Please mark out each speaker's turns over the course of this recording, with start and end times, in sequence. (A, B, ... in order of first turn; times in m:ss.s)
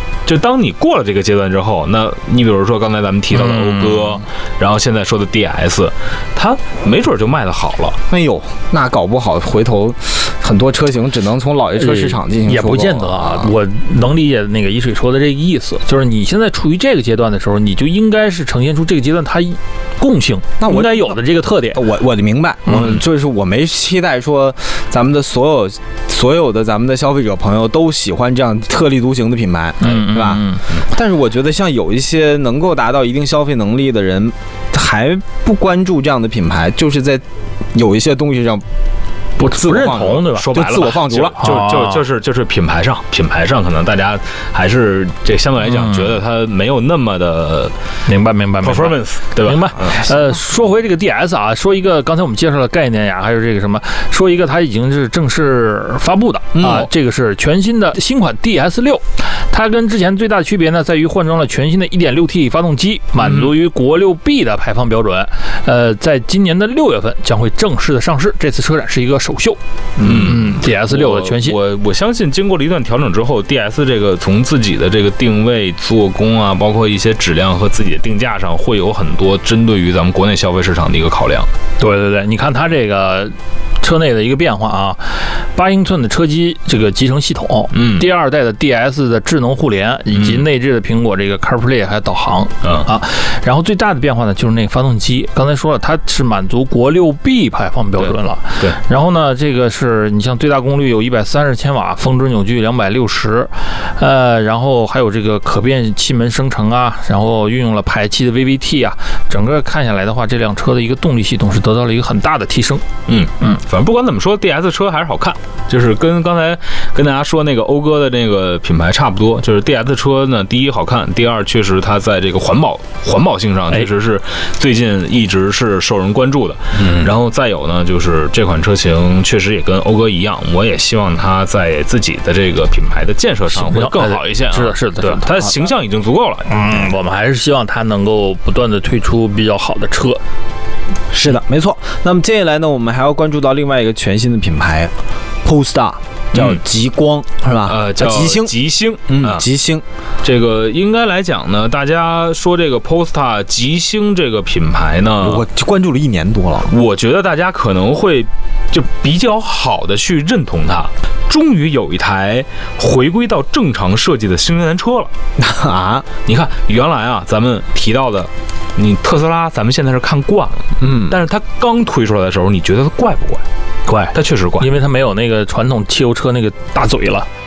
0:00.3-0:08.0 A
0:03.3-0:04.2 B
0:08.1-0:13.6 C
0:11.8-0:21.8 B
0:20.6-0:21.2 C
0:21.7-0:37.2 C
0:22.7-0:23.0 B
0:29.8-0:30.6 B
0:37.7-0:38.6 C
0:39.4-0:40.6 B
0:39.4-0:41.4 C
0:40.3-0:47.8 A
0:41.4-0:42.0 B
0:45.6-0:46.2 B
0:48.0-1:11.6 B
0:48.6-0:50.1 A
0:56.5-0:56.9 C
0:56.6-0:56.9 A
1:03.2-1:03.6 A
1:10.0-1:21.5 A
1:21.8-1:52.8 B
1:27.7-1:28.1 A
1:30.1-1:30.5 A
1:32.6-1:32.9 A
1:38.0-1:38.8 A
1:53.1-2:16.5 A
2:06.8-2:07.1 C
2:13.5-2:15.5 B
2:16.5-2:20.2 B
2:21.1-2:24.9 C
2:25.4-2:28.5 C
2:27.7-2:29.4 A
2:29.1-2:29.8 C
2:30.2-2:35.4 A
2:35.2-2:36.7 C
2:36.7-2:45.1 A
2:45.4-2:46.1 C
2:46.3-2:53.4 A
2:50.8-2:51.2 C
2:53.9-2:57.3 B
2:54.1-2:54.7 A